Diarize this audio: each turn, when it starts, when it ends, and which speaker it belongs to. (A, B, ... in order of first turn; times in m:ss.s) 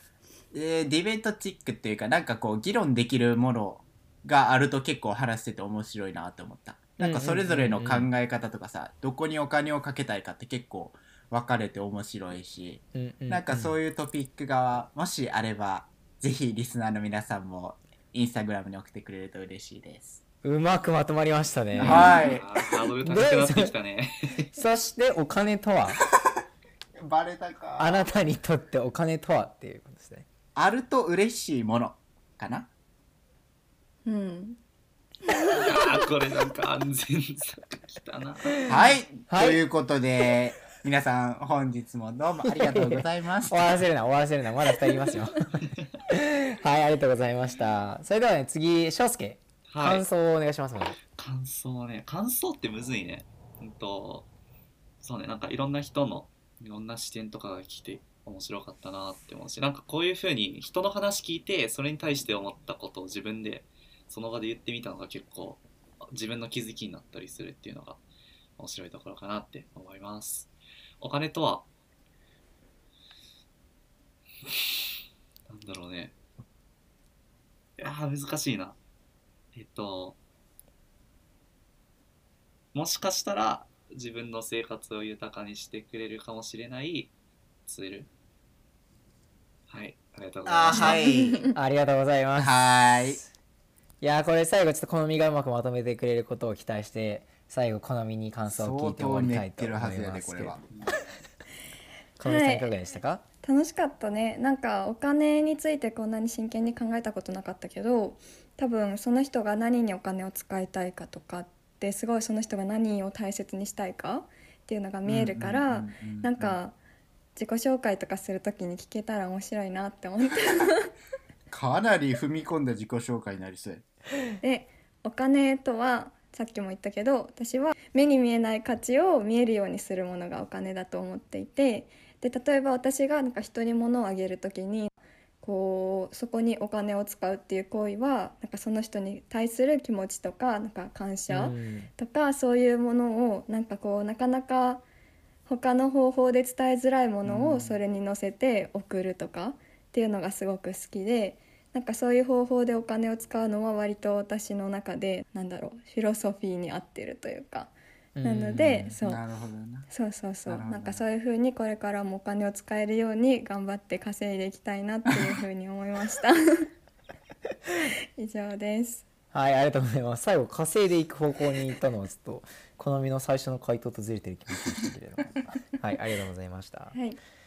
0:00.5-0:20.2 A
0:07.0-0:08.1 B
0:12.9-0:13.8 B
0:20.4-0:22.2 B
0:21.8-0:22.5 A
0:21.8-0:24.5 C
0:23.0-0:23.7 B
0:24.5-0:26.0 B
0:27.0-0:28.1 A
0:27.8-0:30.2 B
0:30.5-0:32.7 A
0:34.0-0:34.6 D
0:35.3-0:35.6 D
0:35.5-0:38.7 C
0:38.6-0:43.8 A
0:39.3-0:39.6 B
0:42.4-0:51.0 B
0:49.7-0:50.0 C
0:51.1-0:54.3 C
0:55.0-1:08.0 C
1:08.6-1:11.6 C
1:15.5-1:16.1 C
1:17.8-1:18.8 C
1:19.5-1:20.2 C
1:22.7-1:27.1 C
1:27.6-1:28.1 C
1:29.7-1:31.2 C
1:30.4-1:31.5 A
1:30.7-1:31.5 D
1:31.5-1:33.3 B
1:32.4-1:33.2 A
1:34.0-1:40.6 B
1:38.5-1:40.7 A
1:40.7-1:41.0 C
1:42.2-1:43.2 B
1:42.2-1:42.7 D
1:43.4-1:56.7 D
1:55.0-1:56.6 A
1:57.4-2:00.9 D
2:01.5-2:03.8 A
2:04.4-2:24.8 D
2:21.3-2:21.9 B
2:25.5-2:37.7 D
2:27.2-2:27.8 A
2:38.2-2:39.0 B
2:38.2-2:39.2 D
2:39.0-2:39.9 A
2:39.9-2:46.7 D
2:40.4-2:41.0 A
2:48.2-2:49.0 D
2:49.3-2:57.0 B
2:56.9-2:57.2 D